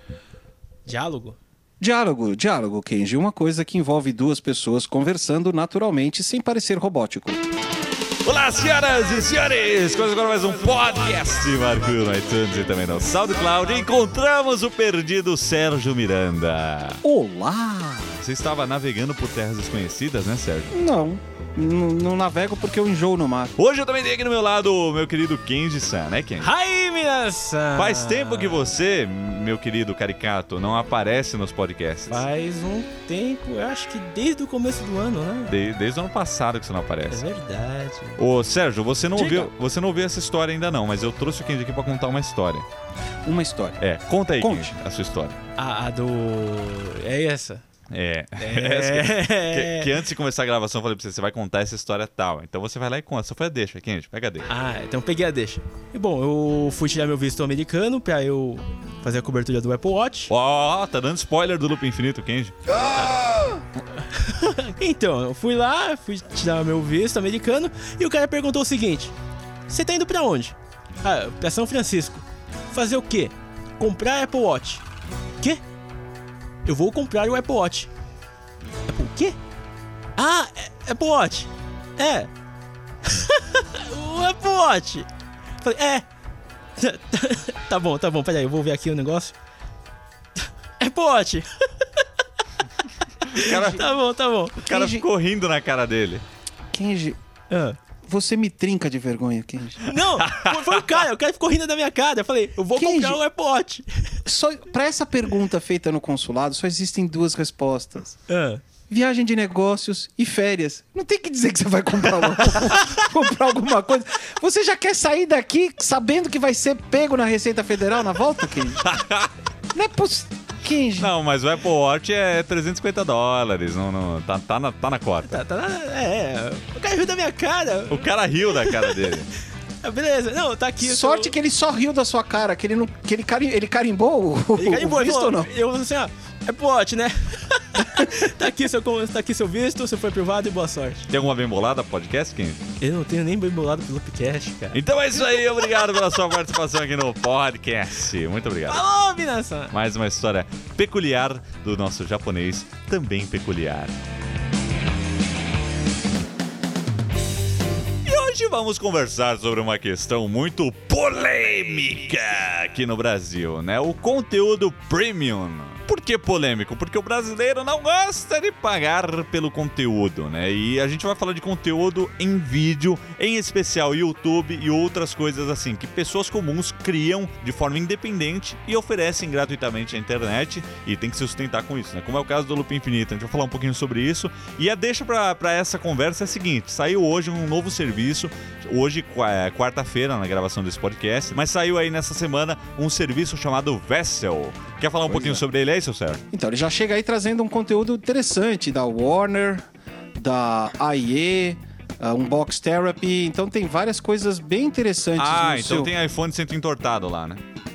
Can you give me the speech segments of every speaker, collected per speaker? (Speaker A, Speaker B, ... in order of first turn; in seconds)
Speaker A: 0.8-1.4, 26.4-28.7, 32.1-35.5, 37.1-38.2, 39.2-39.5, 45.6-47.6, 48.4-50.0, 54.5-60.3, 64.0-69.1, 69.7-74.8, 76.6-77.9, 78.9-79.4, 80.2-82.3, 83.0-85.1, 85.6-86.0, 86.8-89.3, 90.8-92.0, 93.3-94.6, 97.5-97.8, 99.8-104.2, 108.3-108.6, 125.3-129.2, 129.8-131.3, 134.5-141.1, 142.8-145.8, 148.7-149.7
Speaker B: 1.8-7.4, 17.0-18.1, 20.7-23.6, 43.3-43.8, 44.4-44.7, 93.4-93.8, 94.6-95.0, 96.7-97.2, 98.1-99.9, 102.8-103.2, 104.2-108.2, 108.9-118.9, 119.7-121.1, 130.8-135.5, 195.1-195.4, 196.3-199.6, 200.2-205.9
Speaker C: 8.2-17.0, 18.2-20.7, 23.6-26.5, 27.8-32.2, 35.5-37.2, 38.2-42.6, 43.8-45.4, 47.9-54.5, 60.3-62.7, 93.3-93.8, 94.6-96.2, 100.2-100.8, 118.8-119.3, 121.0-125.4, 127.9-129.3, 141.1-142.6, 144.7-148.8, 149.7-153.9, 158.0-196.2, 205.2-207.4